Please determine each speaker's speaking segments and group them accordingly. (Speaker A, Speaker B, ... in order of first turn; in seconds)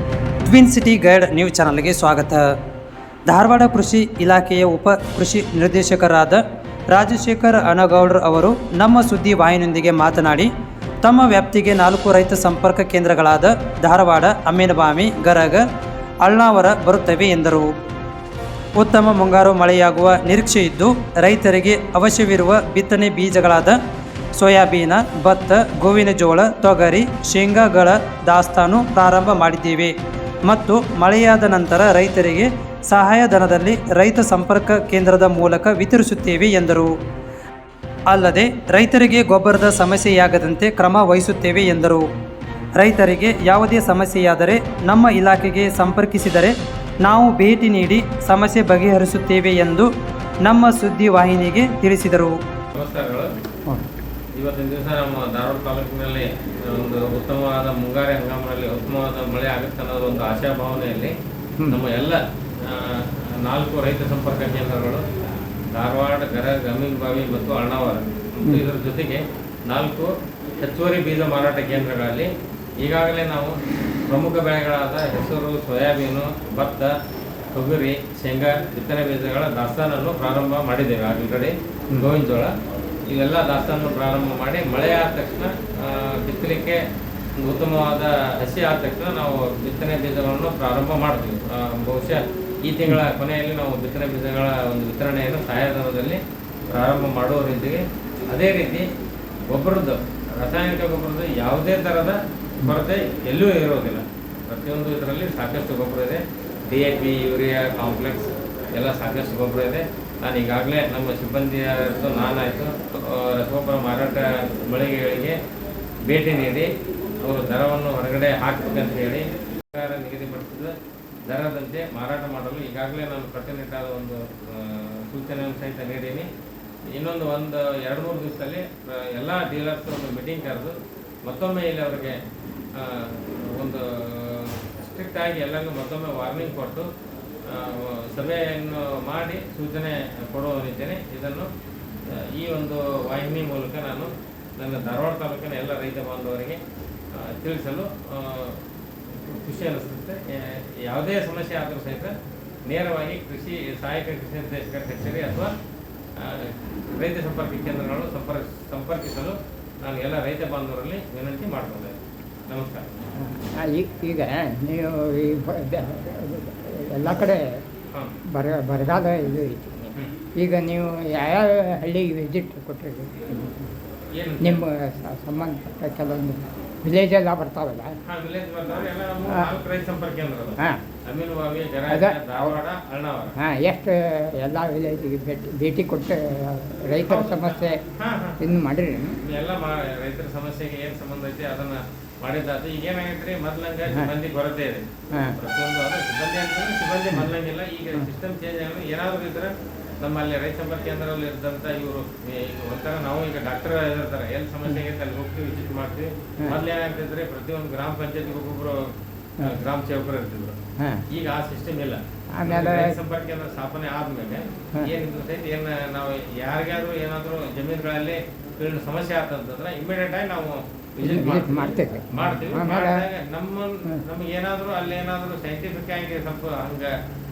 Speaker A: 0.5-2.6, 3.3-10.5, 11.0-15.7, 16.2-17.7, 18.8-23.8, 24.4-29.9, 30.5-36.9, 38.1-42.0, 42.8-49.9, 50.4-52.4
Speaker B: 52.7-53.3, 54.4-61.1, 61.7-65.0, 65.7-72.3, 72.8-76.9, 77.5-82.5, 83.1-86.8, 87.4-96.2, 96.7-98.9, 99.5-115.4, 116.1-120.8, 121.3-126.3, 126.9-132.2, 132.7-136.9, 137.5-141.5, 142.1-146.6, 147.1-152.1, 152.7-155.5, 156.2-162.9, 174.1-174.6, 178.0-183.4, 187.1-188.4, 189.2-210.6, 211.1-226.9
Speaker C: 163.2-167.4, 168.3-173.7, 174.4-178.0, 179.3-179.6, 181.9-182.6, 183.4-187.8, 188.4-189.2, 212.4-212.9, 221.0-223.0